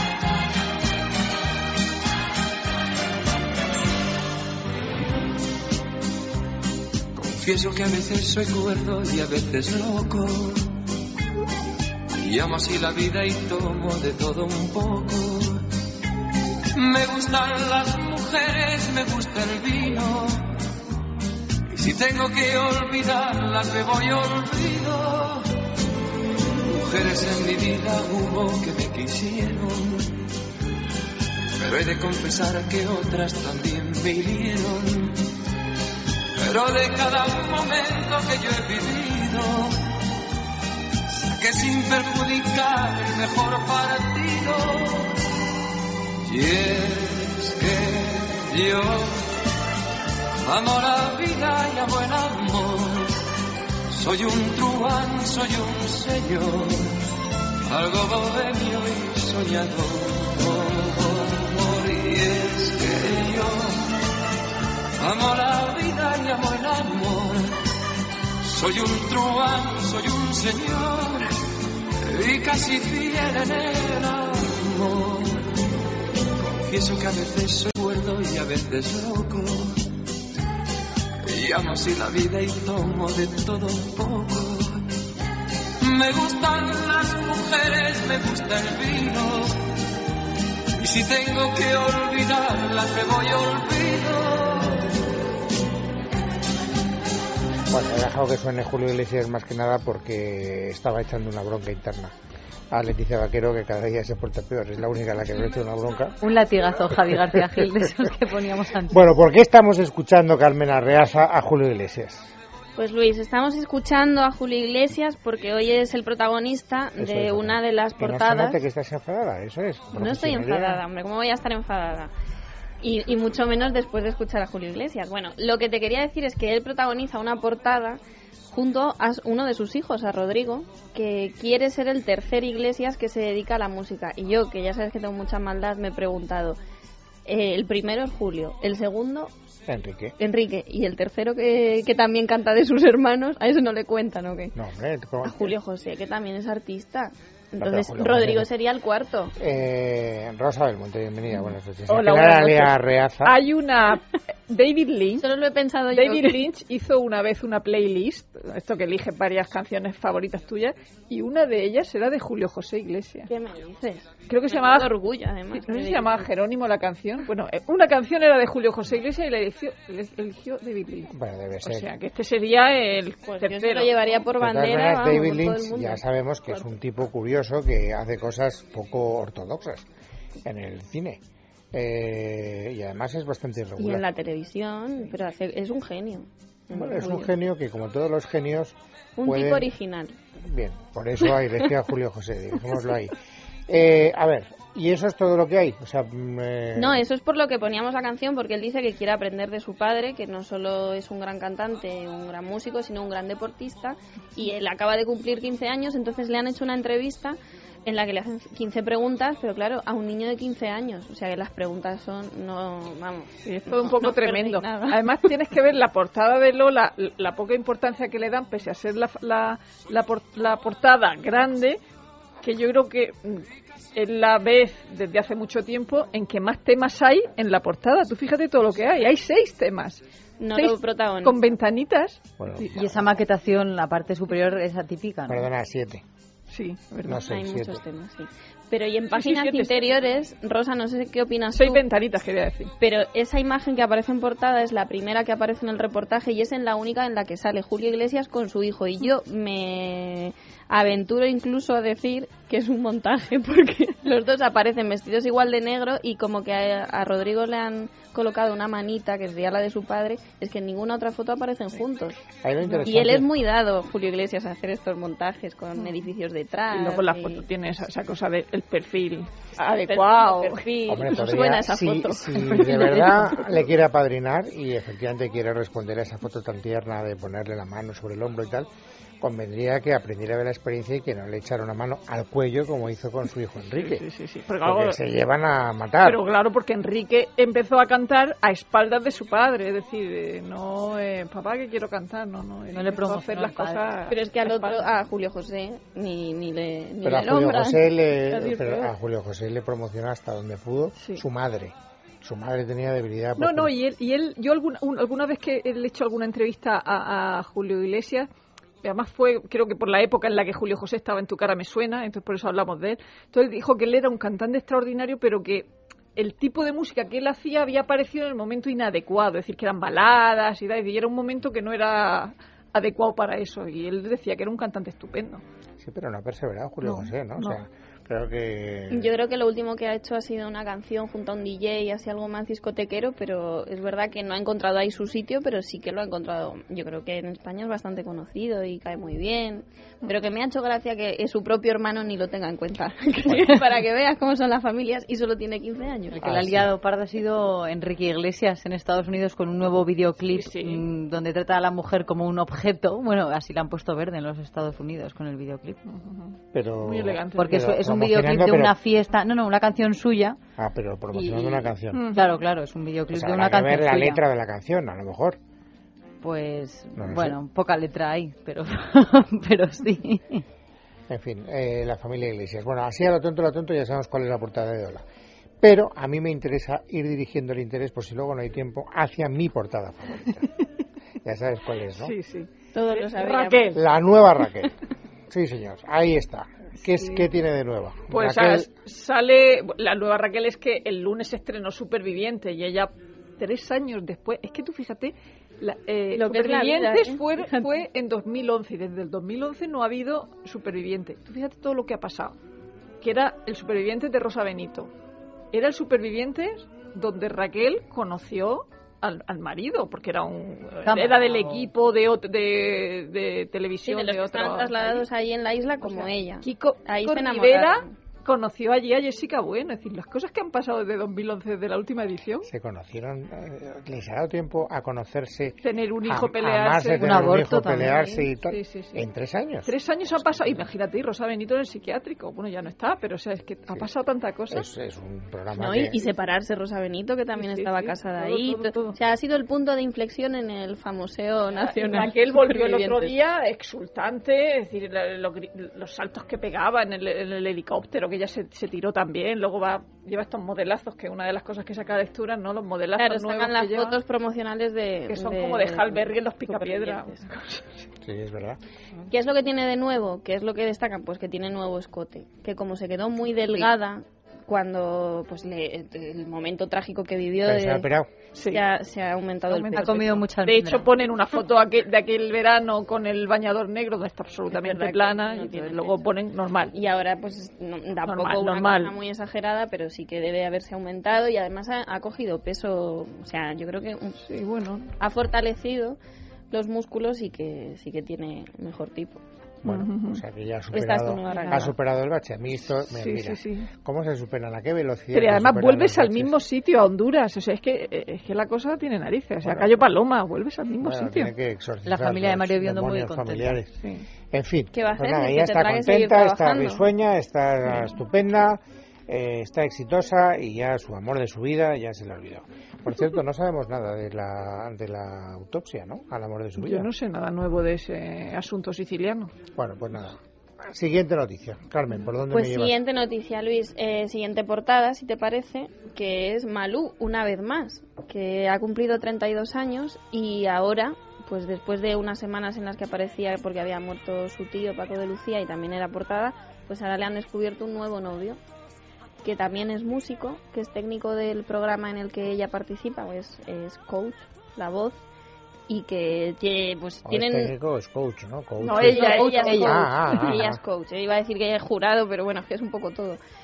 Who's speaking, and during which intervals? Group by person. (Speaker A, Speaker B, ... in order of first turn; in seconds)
Speaker A: 7.2-10.8, 12.2-15.7, 16.7-20.5, 21.7-25.5, 26.6-30.2, 31.6-35.2, 36.4-39.8, 41.1-45.2, 46.3-49.3, 50.4-53.2, 53.9-57.0, 57.7-63.9, 65.0-67.6, 68.4-71.3, 72.0-75.6, 76.6-79.9, 81.3-84.9, 85.8-89.6, 90.8-94.8
Speaker B: 97.7-102.1, 102.7-106.2, 108.9-112.3, 117.0-120.8, 139.7-140.2, 144.6-145.6, 147.6-148.5, 149.4-153.4, 171.1-171.9, 174.4-179.9, 180.4-181.2, 181.7-184.0, 186.7-189.7, 190.4-193.2, 193.7-197.0, 232.4-233.1, 235.3-236.0, 237.1-237.8, 262.4-263.3, 270.9-278.7, 279.2-284.0, 284.6-286.2, 297.0-303.7, 325.8-329.1, 346.2-346.7, 356.5-358.8, 360.6-362.1, 363.1-365.4, 367.0-367.4, 371.1-375.0, 375.6-380.6, 381.2-382.1, 383.7-384.8, 385.3-388.7, 422.4-430.3, 434.5-436.0, 458.0-458.6, 467.4-468.1, 489.6-496.4, 499.4-499.8, 500.8-503.8, 504.3-516.9, 519.6-522.8, 547.0-550.6
Speaker C: 106.2-109.0, 232.7-235.5, 292.7-293.9, 346.1-355.8, 357.4-360.4, 361.1-364.2, 366.2-370.4, 410.8-411.7, 427.0-428.3, 469.7-470.9, 501.9-503.6, 548.8-549.9
Speaker D: 112.8-118.6, 119.9-122.1, 122.8-136.6, 137.3-139.3, 140.2-144.6, 145.2-149.3, 155.2-156.5, 163.3-166.3, 173.3-176.0, 183.8-187.3, 189.2-190.2, 196.8-215.0, 230.4-231.5, 237.2-241.8, 242.8-262.2, 262.8-267.4, 269.6-272.4, 294.1-297.9, 328.9-346.2, 382.7-383.8, 396.1-397.7, 413.9-417.9, 435.6-443.1, 453.0-457.2, 459.1-467.9, 468.5-470.2, 474.5-476.0, 476.7-484.2, 485.0-486.0, 486.5-489.2, 490.7-491.8, 504.7-506.9, 522.3-538.4, 539.2-545.0, 545.7-547.5, 548.8-553.2
Speaker E: 151.4-155.3, 155.9-163.3, 164.3-165.0, 165.6-171.1, 171.6-174.1, 213.4-221.8, 222.4-232.7, 236.5-237.3, 239.1-240.0, 241.6-242.7, 262.6-262.9, 265.8-266.1, 266.7-271.8, 272.3-273.4, 283.8-285.0, 286.0-294.9, 298.4-298.9, 301.0-301.2, 303.4-308.3, 308.8-325.4, 326.8-327.6, 350.3-350.9, 355.9-357.6, 361.9-362.4, 382.0-383.8, 386.9-387.3, 388.1-402.4, 403.0-404.9, 405.5-415.1, 415.8-422.5, 425.6-427.3, 428.5-429.1, 429.6-434.7, 437.4-439.0, 441.5-454.0, 455.1-457.8, 468.4-468.6, 469.5-476.7, 478.1-478.9, 484.2-484.9, 489.6-490.2, 491.3-491.7, 492.9-493.7, 495.1-501.3, 503.8-504.1, 516.6-519.3, 548.6-550.2